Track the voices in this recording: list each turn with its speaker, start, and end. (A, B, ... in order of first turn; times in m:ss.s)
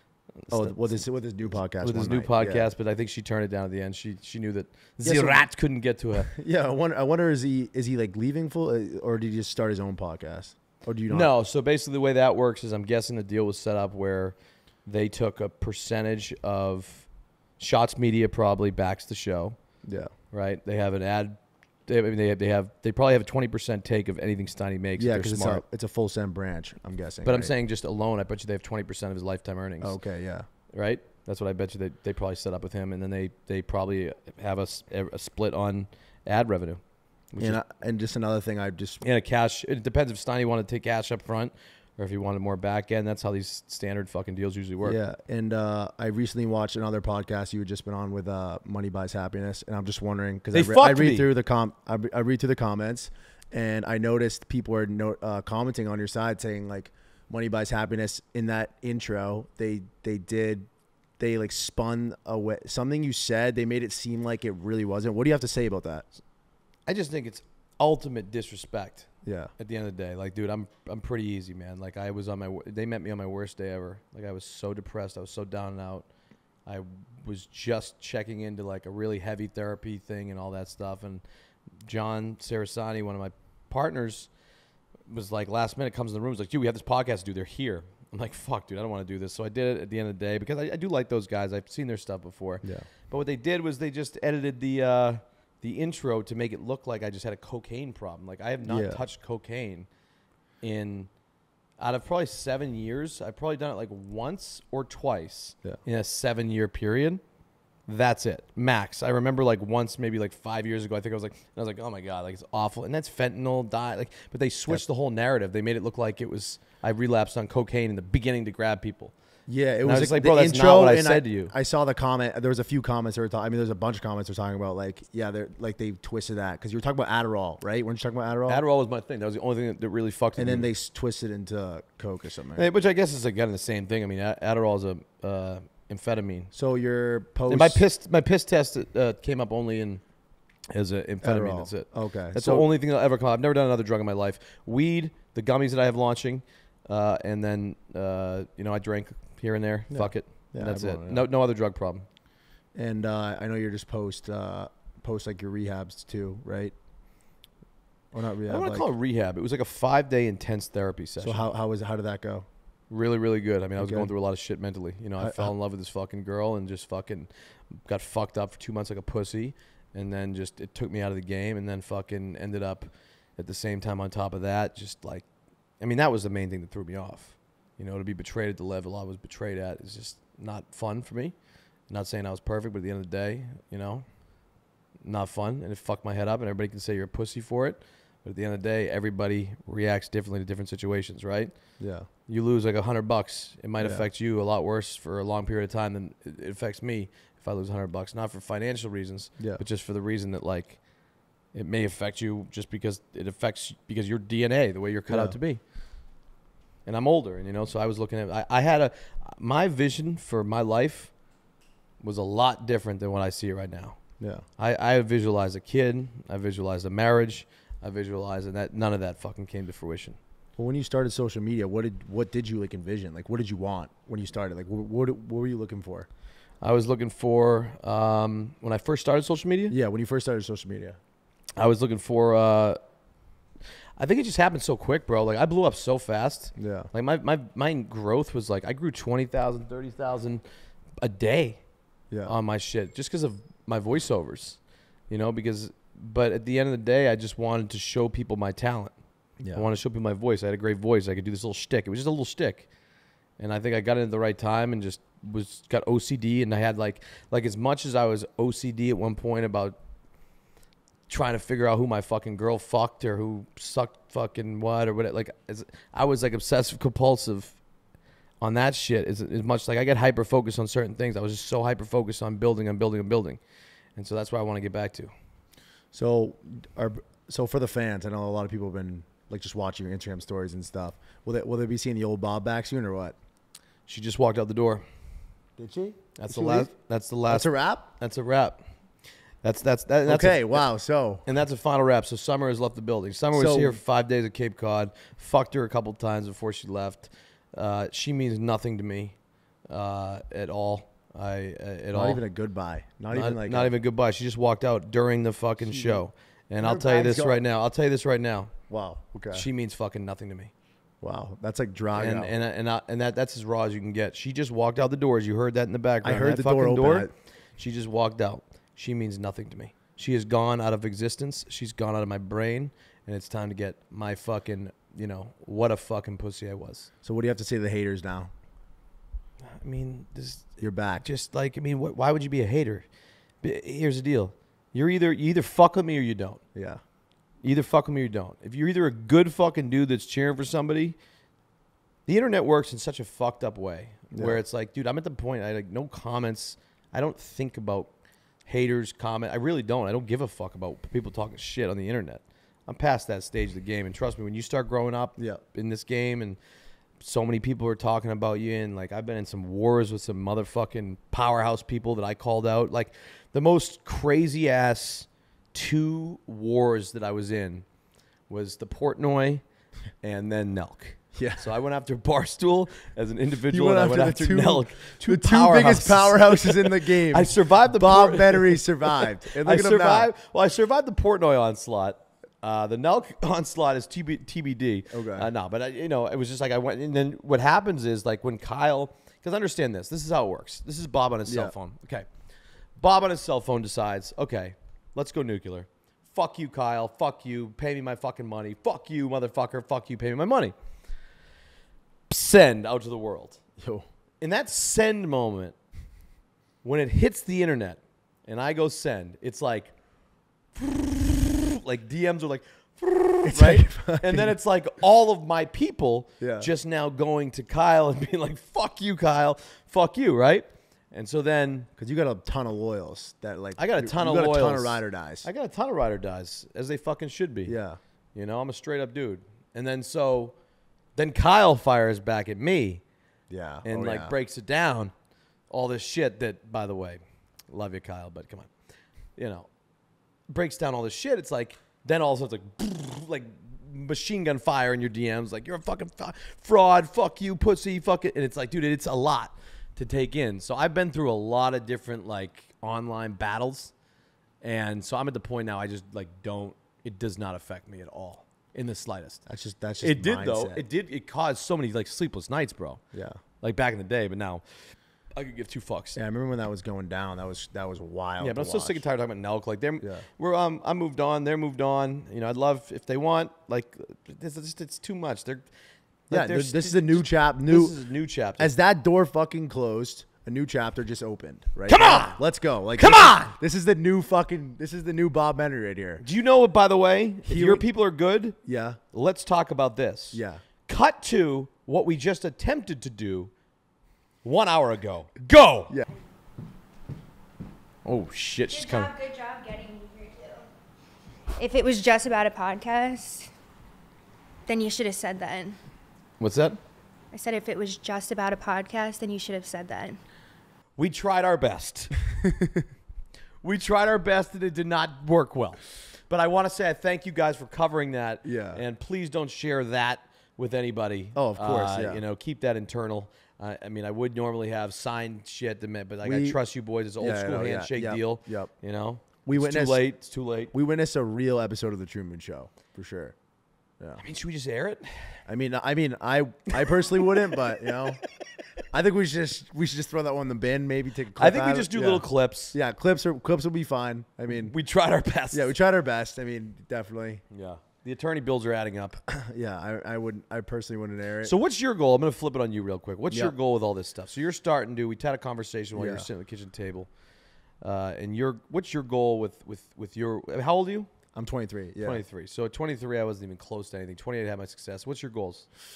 0:00.3-0:06.3 A
0:00.5-0:02.7 B
0:05.0-0:05.5 B
0:06.2-0:11.3 B
0:11.1-0:19.6 A
0:19.8-0:20.1 B
0:20.3-0:25.6 A
0:25.0-0:27.5 B
0:27.2-0:30.0 A
0:29.8-0:30.5 B
0:30.7-0:37.6 A
0:37.4-0:39.0 B
0:39.0-0:45.0 A
0:44.8-1:06.0 B
0:50.5-0:51.3 A
1:06.9-1:16.1 A
1:09.2-1:09.5 B
1:16.6-1:21.2 A
1:21.8-1:24.3 A
1:25.0-1:39.9 A
1:32.6-1:32.9 B
1:38.6-1:39.0 B
1:40.6-1:41.1 A
1:41.8-1:47.2 A
1:47.9-1:59.1 A
1:59.5-2:08.6 B
1:59.8-2:01.5 A
2:08.5-2:10.7 A
2:10.4-2:12.7 B
2:12.5-2:16.5 A
2:16.5-2:17.8 B
2:17.5-2:20.0 A
2:20.7-2:32.1 A
2:21.2-2:22.7 B
2:29.9-2:31.2 B
2:32.7-2:36.7 B
2:38.1-2:38.9 B
2:38.5-2:41.4 A
2:41.2-2:42.5 B
2:42.9-2:55.3 A
2:43.8-2:44.1 B
2:45.2-2:45.5 B
2:55.8-3:04.5 A
3:05.0-3:20.9 A
3:11.8-3:12.1 B
3:13.8-3:14.0 B
3:21.5-3:25.6 A
3:25.1-3:25.4 B
3:26.8-3:31.1 A
3:32.0-3:40.2 A
3:34.2-3:34.4 B
3:40.6-3:46.1 B
3:46.6-3:49.7 A
3:49.7-3:51.0 B
3:51.6-3:52.8 A
3:54.0-4:00.4 A
3:56.6-3:56.9 B
4:01.0-4:01.6 A
4:02.2-4:09.0 A
4:09.4-4:09.7 B
4:09.5-4:12.7 A
4:13.4-4:19.8 A
4:21.1-4:27.6 A
4:28.4-4:33.4 A
4:34.0-4:35.1 A
4:35.9-4:43.2 B
4:43.9-4:44.8 A
4:45.6-4:46.7 B
4:46.2-4:48.6 A
4:47.3-4:47.8 B
4:49.4-4:50.7 A
4:50.0-4:51.2 B
4:51.2-5:02.2 A
4:53.3-4:53.8 B
5:01.9-5:03.7 B
5:03.1-5:08.5 A
5:05.6-5:06.1 B
5:06.6-5:07.4 B
5:08.7-5:09.5 B
5:09.3-5:10.5 A
5:11.0-5:12.3 B
5:12.0-5:26.9 A
5:16.0-5:17.1 B
5:27.0-5:28.3 B
5:29.4-5:32.8 A
5:30.6-5:31.0 B
5:33.4-5:36.4 A
5:36.5-5:36.8 B
5:37.4-5:41.0 A
5:42.1-5:47.9 A
5:44.1-5:44.4 B
5:48.4-5:56.4 A
5:55.2-5:55.4 B
5:57.0-6:07.6 A
6:08.3-6:09.4 A
6:10.0-6:32.1 A
6:11.2-6:11.4 B
6:13.5-6:20.1 B
6:24.9-6:25.3 B
6:31.3-6:31.5 B
6:32.8-6:40.5 A
6:42.1-6:43.4 A
6:43.6-6:43.8 B
6:44.2-6:45.5 A
6:46.6-6:49.7 A
6:50.5-7:01.7 A
6:53.2-6:54.3 B
6:56.2-6:56.5 B
7:01.8-7:05.3 B
7:03.6-7:07.6 A
7:07.5-7:07.8 B
7:08.1-7:10.4 A
7:11.0-7:12.8 A
7:13.3-7:14.1 B
7:13.6-7:14.9 A
7:15.5-7:18.5 A
7:19.2-7:19.5 A
7:20.3-7:33.7 A
7:34.4-7:39.2 A
7:39.2-7:40.6 B
7:39.8-7:42.8 A
7:42.9-7:43.2 B
7:43.4-7:46.0 A
7:46.0-7:48.8 B
7:48.2-7:55.5 A
7:49.8-7:50.0 B
7:56.1-7:58.5 A
7:56.1-7:57.7 B
7:58.4-8:06.0 B
8:01.7-8:02.2 A
8:02.8-8:03.3 A
8:06.0-8:08.4 A
8:07.2-8:07.6 B
8:08.4-8:08.8 B
8:08.9-8:13.3 A
8:10.1-8:10.4 B
8:14.2-8:15.7 A
8:17.8-8:18.9 A
8:18.5-8:20.5 C
8:21.4-8:23.3 C
8:24.5-8:25.6 C
8:26.2-8:26.6 A
8:27.1-8:30.0 C
8:30.8-8:31.9 A
8:32.2-8:32.6 B
8:33.4-8:50.5 A
8:38.2-8:38.6 B
8:41.2-8:42.0 B
8:46.0-8:46.4 B
8:47.0-8:48.5 B
8:49.2-8:49.8 B
8:50.5-8:53.2 B
8:54.0-8:55.2 A
8:55.2-8:58.0 B
8:56.7-8:57.6 A
8:58.7-9:04.5 B
9:01.2-9:02.6 A
9:04.3-9:05.6 A
9:05.3-9:07.2 B
9:07.3-9:09.0 A
9:09.1-9:11.3 B
9:11.2-9:16.9 A
9:15.8-9:16.0 B
9:17.6-9:20.9 A
9:21.2-9:22.0 B
9:21.8-9:25.5 A